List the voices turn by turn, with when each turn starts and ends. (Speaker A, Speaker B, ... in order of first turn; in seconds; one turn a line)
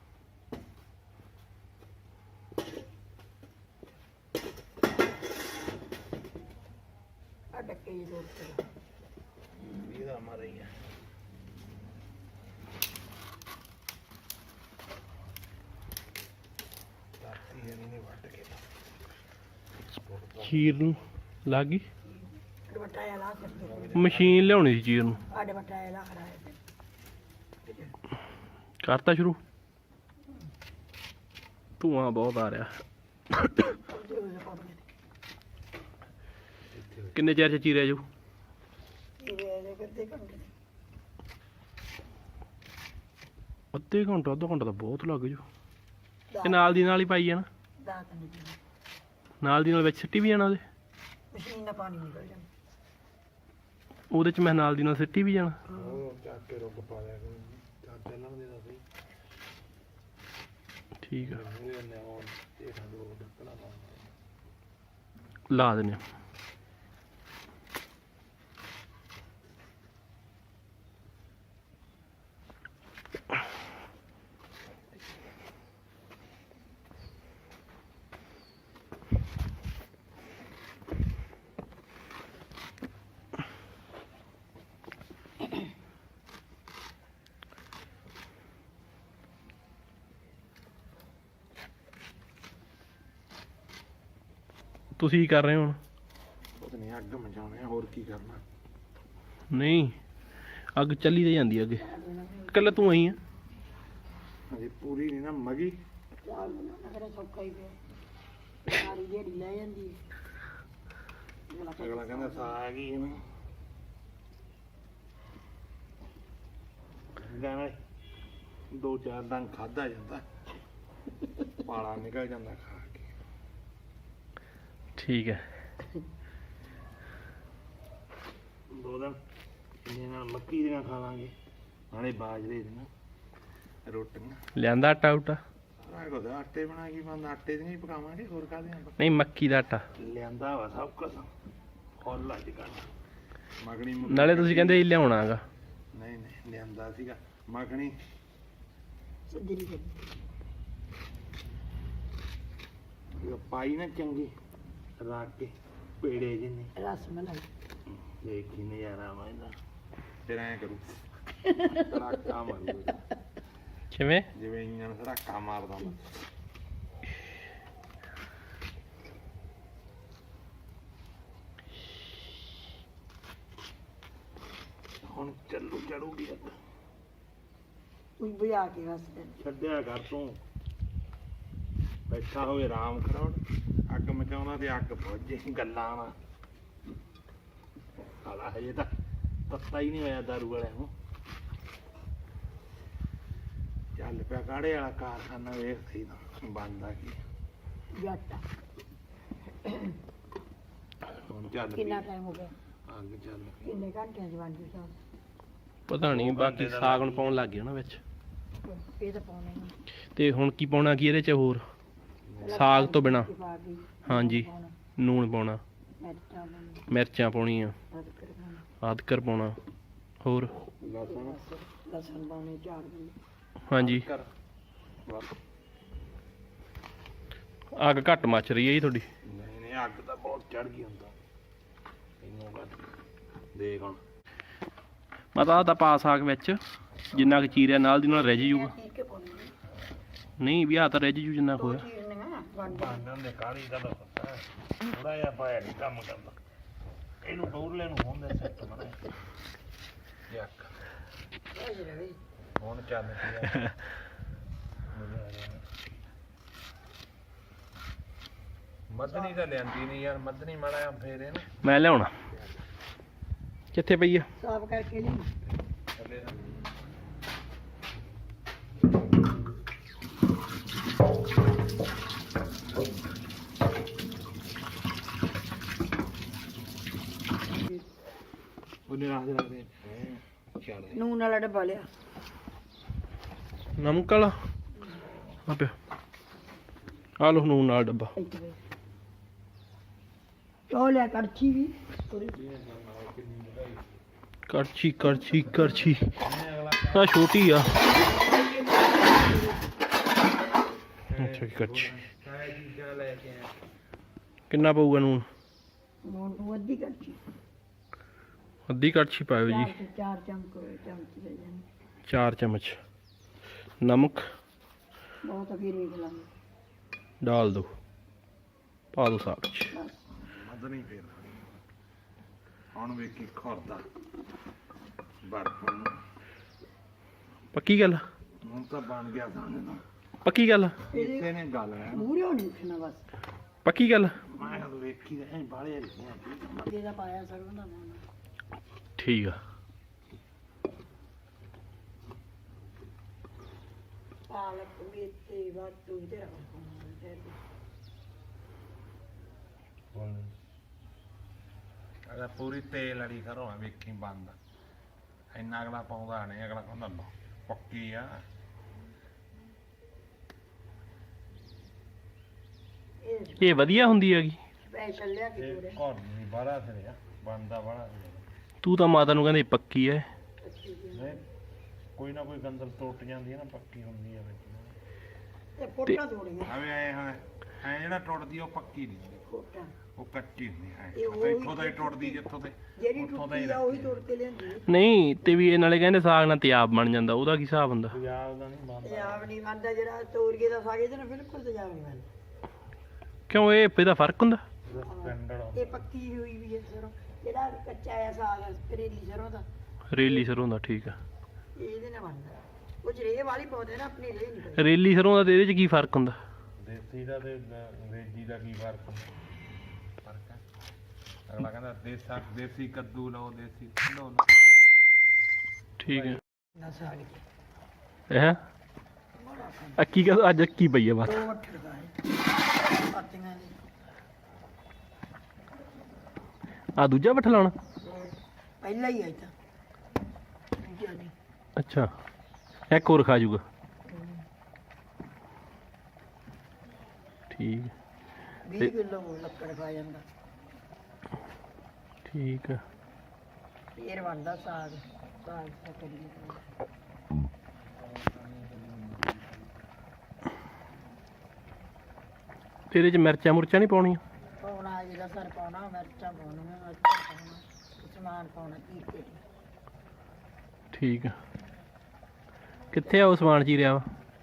Speaker A: 7.5-8.6
Speaker B: 9.8-10.7
Speaker B: 17.2-18.6
Speaker B: 19.9-20.8
Speaker C: 20.4-21.8
Speaker A: 22.7-24.0
Speaker B: 23.6-24.6
Speaker C: 23.9-25.2
Speaker A: 25.3-26.6
Speaker A: 27.7-27.9
Speaker C: 28.8-29.4
Speaker C: 31.8-32.7
Speaker C: 33.3-33.8
Speaker A: 33.9-34.8
Speaker B: 36.7-37.2
Speaker C: 37.1-38.0
Speaker A: 39.2-40.5
Speaker C: 43.7-45.4
Speaker A: 46.3-46.9
Speaker C: 46.4-47.5
Speaker A: 47.8-48.6
Speaker C: 49.4-50.6
Speaker A: 51.3-52.5
Speaker C: 54.1-55.6
Speaker B: 55.7-58.8
Speaker C: 61.0-61.4
Speaker B: 61.2-64.1
Speaker C: 65.5-66.0
Speaker C: 95.0-95.8
Speaker B: 96.6-98.4
Speaker C: 99.5-100.0
Speaker C: 100.8-101.8
Speaker A: 101.8-102.8
Speaker C: 102.5-103.2
Speaker B: 104.5-105.8
Speaker A: 106.2-107.8
Speaker A: 108.6-110.0
Speaker A: 111.5-112.6
Speaker B: 111.8-113.2
Speaker B: 117.2-117.8
Speaker B: 118.7-120.3
Speaker B: 121.6-123.1
Speaker C: 125.0-125.4
Speaker B: 128.7-129.2
Speaker B: 129.8-131.3
Speaker B: 131.9-132.9
Speaker B: 133.9-134.4
Speaker C: 134.6-135.4
Speaker B: 135.8-139.1
Speaker C: 139.0-139.8
Speaker B: 139.9-141.3
Speaker B: 142.0-142.9
Speaker B: 143.6-144.9
Speaker C: 144.1-145.4
Speaker B: 145.9-148.0
Speaker A: 149.3-150.0
Speaker B: 153.2-154.3
Speaker B: 155.0-156.7
Speaker A: 156.8-157.5
Speaker B: 157.9-159.6
Speaker B: 160.3-161.0
Speaker A: 161.5-161.9
Speaker B: 161.6-163.0
Speaker C: 163.9-164.3
Speaker B: 164.3-166.1
Speaker B: 175.0-176.6
Speaker A: 178.2-179.4
Speaker B: 179.4-180.4
Speaker B: 182.1-186.2
Speaker B: 188.2-188.9
Speaker B: 189.5-190.9
Speaker B: 194.0-197.2
Speaker A: 197.9-198.4
Speaker A: 199.6-200.0
Speaker B: 201.1-202.1
Speaker A: 201.7-202.6
Speaker B: 202.9-203.6
Speaker A: 203.6-204.9
Speaker C: 205.9-208.0
Speaker B: 206.0-207.4
Speaker A: 208.6-209.8
Speaker C: 210.2-211.6
Speaker B: 212.3-212.6
Speaker A: 212.4-214.8
Speaker C: 212.5-213.3
Speaker C: 214.1-215.6
Speaker A: 216.0-216.8
Speaker C: 216.9-217.7
Speaker A: 217.9-218.7
Speaker C: 218.8-219.6
Speaker C: 220.2-220.5
Speaker B: 220.8-221.4
Speaker A: 220.9-223.2
Speaker C: 223.7-224.1
Speaker B: 223.8-224.3
Speaker B: 225.1-225.3
Speaker C: 227.8-229.1
Speaker B: 229.2-231.2
Speaker B: 232.2-232.9
Speaker B: 233.5-234.0
Speaker C: 235.3-236.6
Speaker C: 237.1-238.7
Speaker A: 238.0-239.5
Speaker C: 240.4-241.8
Speaker A: 241.5-243.0
Speaker B: 242.7-246.4
Speaker B: 247.2-249.0
Speaker B: 250.3-250.7
Speaker A: 251.5-252.2
Speaker B: 252.6-253.7
Speaker B: 254.9-255.6
Speaker B: 258.9-261.6
Speaker C: 261.6-262.1
Speaker C: 263.7-264.3
Speaker A: 264.4-265.3
Speaker B: 266.0-266.5
Speaker B: 278.9-281.0
Speaker A: 280.9-281.9
Speaker C: 283.8-284.4
Speaker C: 285.5-285.7
Speaker C: 287.2-288.1
Speaker A: 288.1-288.6
Speaker A: 290.7-292.3
Speaker B: 292.2-294.0
Speaker C: 294.5-296.1
Speaker B: 296.2-297.3
Speaker C: 296.9-297.7
Speaker B: 301.1-303.5
Speaker C: 301.2-301.9
Speaker C: 304.5-305.2
Speaker A: 306.0-307.2
Speaker C: 308.7-309.7
Speaker A: 309.4-311.7
Speaker C: 312.1-312.8
Speaker C: 313.8-314.2
Speaker A: 315.2-316.3
Speaker C: 317.2-317.7
Speaker C: 318.9-319.7
Speaker A: 319.7-320.0
Speaker B: 320.2-321.4
Speaker B: 322.7-323.9
Speaker B: 325.2-326.0
Speaker C: 327.5-328.0
Speaker B: 328.4-329.8
Speaker C: 330.2-330.8
Speaker B: 330.9-332.1
Speaker A: 330.9-331.3
Speaker A: 331.9-333.1
Speaker C: 333.6-334.1
Speaker B: 334.3-336.6
Speaker A: 336.4-338.0
Speaker C: 339.0-339.4
Speaker A: 344.3-347.4
Speaker B: 349.9-350.4
Speaker B: 352.1-354.4
Speaker B: 355.3-358.2
Speaker A: 363.0-363.9
Speaker C: 363.4-364.4
Speaker A: 364.6-365.8
Speaker B: 365.4-368.3
Speaker C: 368.6-370.1
Speaker A: 370.4-371.2
Speaker B: 370.9-371.2
Speaker B: 372.0-374.8
Speaker A: 375.6-376.6
Speaker B: 376.4-379.2
Speaker A: 379.3-379.7
Speaker B: 380.0-384.0
Speaker A: 380.9-382.2
Speaker A: 382.8-384.7
Speaker C: 384.6-388.0
Speaker B: 387.9-389.3
Speaker A: 388.8-392.1
Speaker C: 393.3-394.4
Speaker B: 394.7-395.9
Speaker A: 394.8-399.5
Speaker C: 399.9-401.0
Speaker A: 401.6-404.7
Speaker C: 404.6-406.2
Speaker B: 406.6-409.1
Speaker B: 410.0-410.4
Speaker B: 411.3-414.3
Speaker C: 415.8-416.2
Speaker B: 415.8-416.2
Speaker A: 416.6-417.2
Speaker C: 418.1-418.4
Speaker A: 419.2-419.8
Speaker C: 419.8-421.2
Speaker A: 421.0-422.0
Speaker A: 422.8-423.6
Speaker C: 426.8-427.6
Speaker A: 428.6-429.3
Speaker A: 430.6-431.1
Speaker C: 431.6-431.9
Speaker C: 432.7-433.4
Speaker A: 433.9-434.2
Speaker C: 437.3-437.7
Speaker A: 438.4-440.1
Speaker C: 442.1-442.6
Speaker A: 443.8-446.4
Speaker B: 448.3-449.1
Speaker C: 452.7-454.0
Speaker A: 454.4-459.2
Speaker C: 460.7-461.1
Speaker C: 462.7-463.9